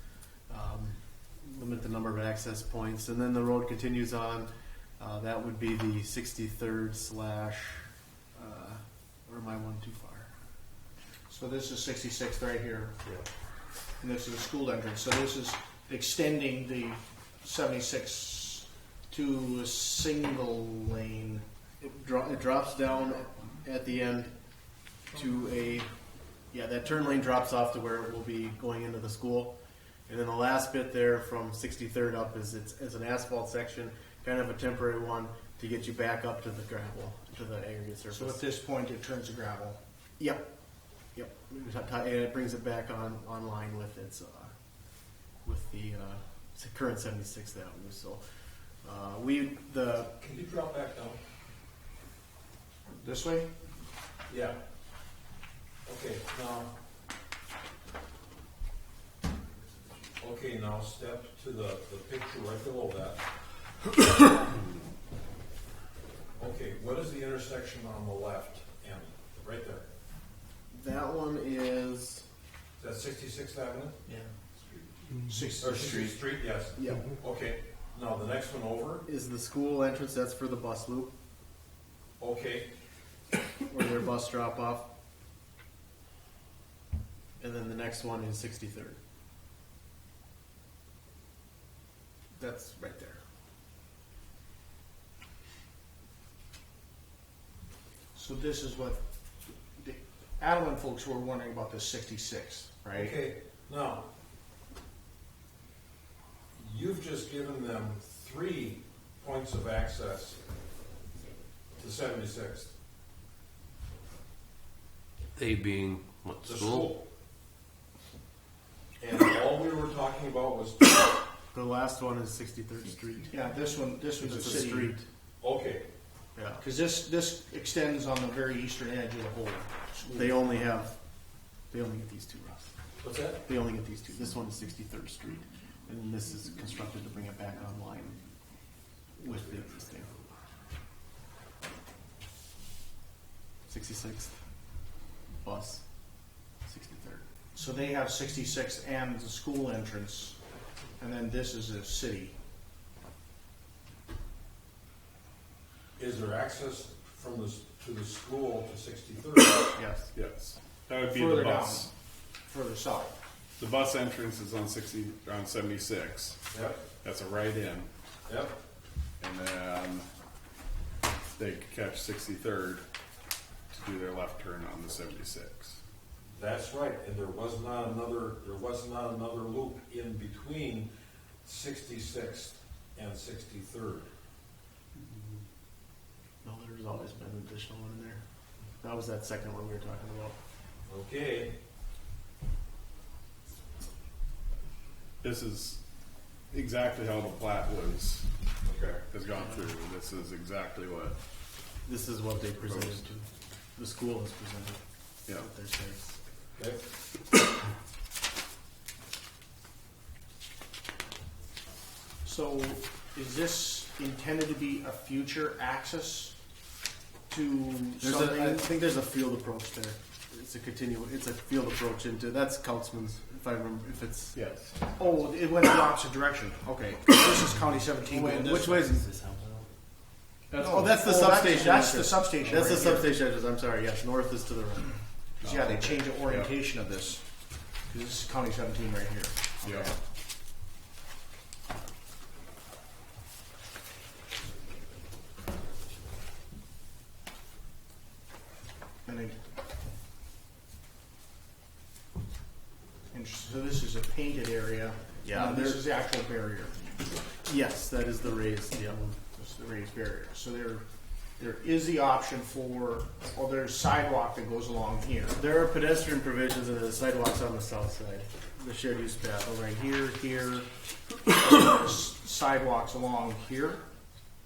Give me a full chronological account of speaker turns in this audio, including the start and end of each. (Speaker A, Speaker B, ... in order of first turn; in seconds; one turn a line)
Speaker A: 0.5-10.3
Speaker B: 11.3-12.9
Speaker B: 14.0-21.4
Speaker A: 21.8-24.3
Speaker A: 25.1-25.9
Speaker A: 26.5-38.4
Speaker B: 38.1-39.8
Speaker A: 40.2-40.5
Speaker A: 41.1-44.5
Speaker A: 45.4-48.2
Speaker A: 48.8-50.1
Speaker C: 50.0-51.2
Speaker B: 52.9-53.5
Speaker C: 54.3-54.6
Speaker C: 55.8-56.7
Speaker C: 60.2-63.2
Speaker C: 64.0-64.6
Speaker C: 66.4-69.8
Speaker A: 70.7-72.2
Speaker C: 72.8-74.0
Speaker B: 75.3-76.1
Speaker C: 75.6-79.0
Speaker A: 75.8-76.1
Speaker A: 76.8-77.1
Speaker A: 79.0-81.1
Speaker C: 82.2-82.7
Speaker A: 83.7-84.9
Speaker A: 87.4-89.0
Speaker B: 92.3-93.2
Speaker B: 98.1-99.0
Speaker B: 99.8-103.2
Speaker C: 102.9-104.0
Speaker C: 106.5-110.4
Speaker C: 111.8-112.7
Speaker D: 115.3-116.8
Speaker C: 116.4-117.0
Speaker C: 119.0-121.2
Speaker A: 121.5-123.3
Speaker B: 123.3-125.0
Speaker A: 124.2-125.0
Speaker C: 125.4-125.8
Speaker A: 126.3-126.6
Speaker B: 126.6-130.4
Speaker A: 130.1-130.9
Speaker A: 131.7-132.7
Speaker C: 133.0-133.4
Speaker A: 133.4-138.2
Speaker A: 139.2-140.2
Speaker A: 143.7-144.3
Speaker A: 145.4-145.8
Speaker A: 146.6-147.2
Speaker B: 147.5-150.4
Speaker B: 151.0-152.3
Speaker C: 156.0-159.8
Speaker A: 159.8-160.1
Speaker D: 160.1-161.9
Speaker B: 161.1-161.9
Speaker B: 162.4-163.2
Speaker D: 163.6-166.4
Speaker C: 166.5-166.8
Speaker D: 167.0-167.9
Speaker C: 168.2-168.6
Speaker D: 169.2-170.1
Speaker D: 171.3-172.8
Speaker D: 173.7-175.8
Speaker C: 176.3-180.9
Speaker C: 181.4-184.1
Speaker A: 186.4-188.2
Speaker A: 188.8-190.4
Speaker C: 190.9-191.6
Speaker D: 195.2-195.8
Speaker D: 196.5-198.3
Speaker C: 198.6-199.0
Speaker D: 199.1-201.2
Speaker A: 201.8-203.2
Speaker D: 202.5-203.0
Speaker A: 203.8-206.2
Speaker C: 206.6-206.8
Speaker B: 212.2-216.3
Speaker B: 217.3-218.6
Speaker A: 218.0-224.3
Speaker D: 224.3-224.8
Speaker B: 225.0-228.8
Speaker A: 228.1-229.6
Speaker B: 230.5-233.2
Speaker A: 230.5-234.9
Speaker B: 235.4-237.2
Speaker D: 235.4-236.5
Speaker B: 237.9-239.9
Speaker B: 249.1-249.4
Speaker B: 253.1-256.8
Speaker A: 255.2-255.8
Speaker A: 257.4-259.1
Speaker B: 259.3-260.8
Speaker B: 261.4-265.4
Speaker A: 265.4-270.0
Speaker B: 269.9-270.7
Speaker B: 271.3-273.8